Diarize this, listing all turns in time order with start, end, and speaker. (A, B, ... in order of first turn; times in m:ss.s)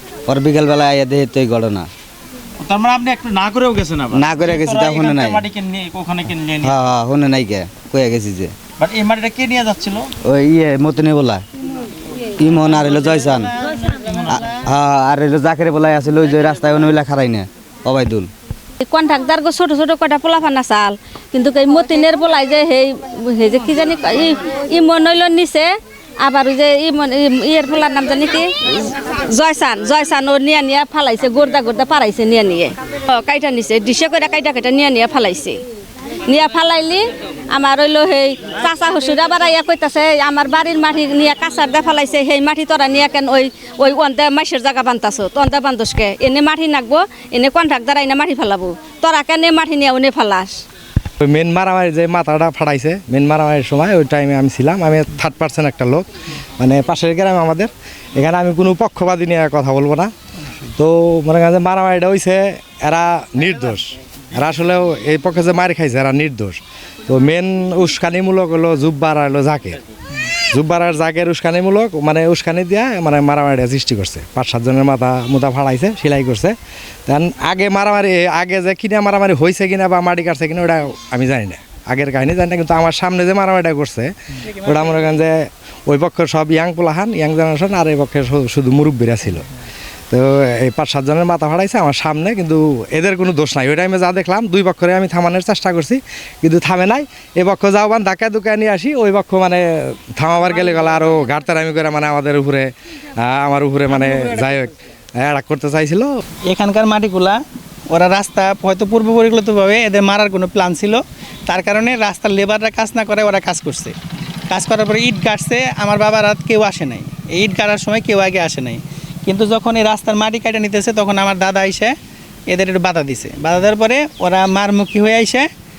0:00.3-0:01.9 A
0:02.6-0:06.7 B
0:04.1-0:05.5 A
0:06.6-0:08.5 A
0:08.8-0:10.1 B
0:10.2-0:11.4 A
0:12.4-0:13.5 A
0:14.0-0:14.3 B
0:14.3-0:18.3 A
0:18.8-0:25.7 C
0:26.2-0:35.6 C
0:36.3-0:50.6 C
0:51.2-0:56.0 D
0:56.6-1:00.1 D
1:00.8-1:09.8 D
1:10.5-1:16.6 D
1:17.1-1:29.5 D
1:30.1-1:46.1 D
1:46.5-1:47.4 E
1:47.9-1:54.0 E
1:54.5-2:01.9 E
2:02.5-2:05.5 E